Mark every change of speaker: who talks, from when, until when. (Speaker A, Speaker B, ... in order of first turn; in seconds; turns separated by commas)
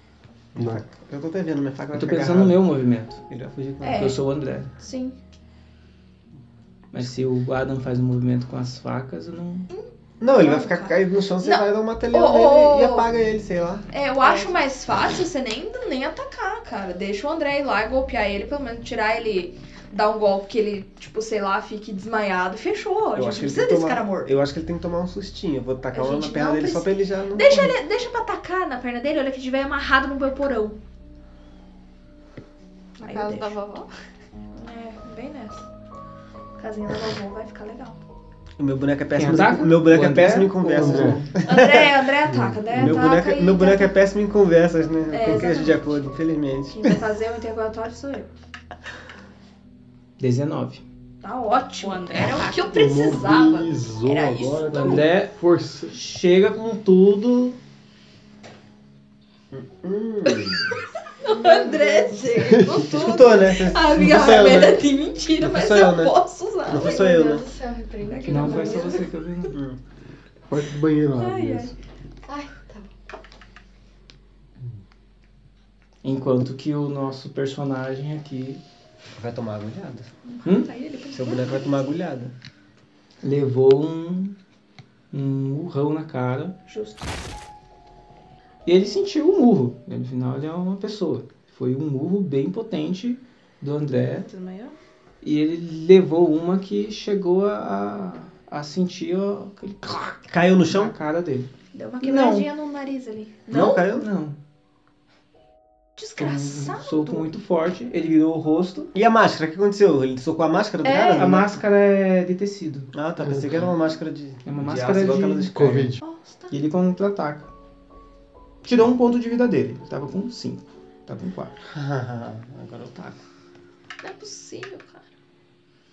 Speaker A: 0.5-2.6, Speaker B: 0.6-0.8, Speaker C: 1.9-3.2, Speaker A: 3.3-4.1, Speaker D: 3.8-4.2, Speaker C: 3.9-4.7, Speaker D: 4.8-5.2, Speaker C: 6.9-9.7, Speaker D: 9.7-13.1, Speaker A: 10.2-13.9, Speaker D: 13.9-24.3, Speaker E: 14.2-14.6, Speaker A: 23.1-27.8, Speaker D: 25.9-30.8, Speaker E: 33.0-33.9, Speaker D: 33.0-33.5, Speaker D: 34.5-35.6, Speaker D: 36.6-38.0, Speaker A: 38.6-42.0, Speaker C: 39.1-41.3, Speaker B: 40.7-41.3, Speaker D: 41.4-43.9, Speaker B: 42.3-43.0, Speaker A: 42.8-47.0, Speaker D: 45.1-46.0, Speaker D: 46.7-48.3, Speaker C: 50.2-50.8, Speaker D: 51.2-55.0, Speaker E: 51.8-52.8, Speaker B: 52.7-55.9, Speaker C: 54.7-55.4, Speaker C: 55.9-57.6, Speaker A: 59.5-60.8, Speaker D: 61.2-67.3, Speaker B: 62.4-62.8, Speaker A: 62.7-64.8, Speaker A: 65.4-67.5, Speaker F: 66.7-69.0, Speaker D: 68.0-69.1, Speaker C: 68.3-69.6, Speaker A: 69.5-69.8, Speaker B: 70.5-71.7, Speaker D: 71.2-71.7, Speaker F: 72.2-72.9, Speaker C: 76.0-78.6, Speaker A: 79.1-80.1, Speaker D: 80.2-81.9, Speaker A: 81.1-82.3, Speaker C: 83.2-84.3, Speaker C: 85.1-86.5, Speaker D: 86.7-87.0, Speaker C: 88.7-94.3, Speaker E: 94.1-94.7, Speaker C: 95.2-101.5, Speaker A: 100.3-100.9, Speaker D: 101.7-103.9, Speaker C: 102.0-102.5, Speaker A: 103.5-104.1, Speaker C: 103.9-104.4, Speaker D: 106.0-107.2, Speaker C: 106.2-108.9, Speaker A: 108.9-111.6, Speaker D: 110.8-111.2, Speaker C: 111.0-112.9, Speaker A: 112.9-115.9, Speaker B: 113.2-113.5, Speaker C: 114.4-115.6, Speaker B: 115.5-116.0, Speaker D: 116.0-116.6, Speaker C: 116.5-117.5, Speaker C: 118.6-121.5, Speaker A: 121.7-123.2, Speaker D: 124.0-125.0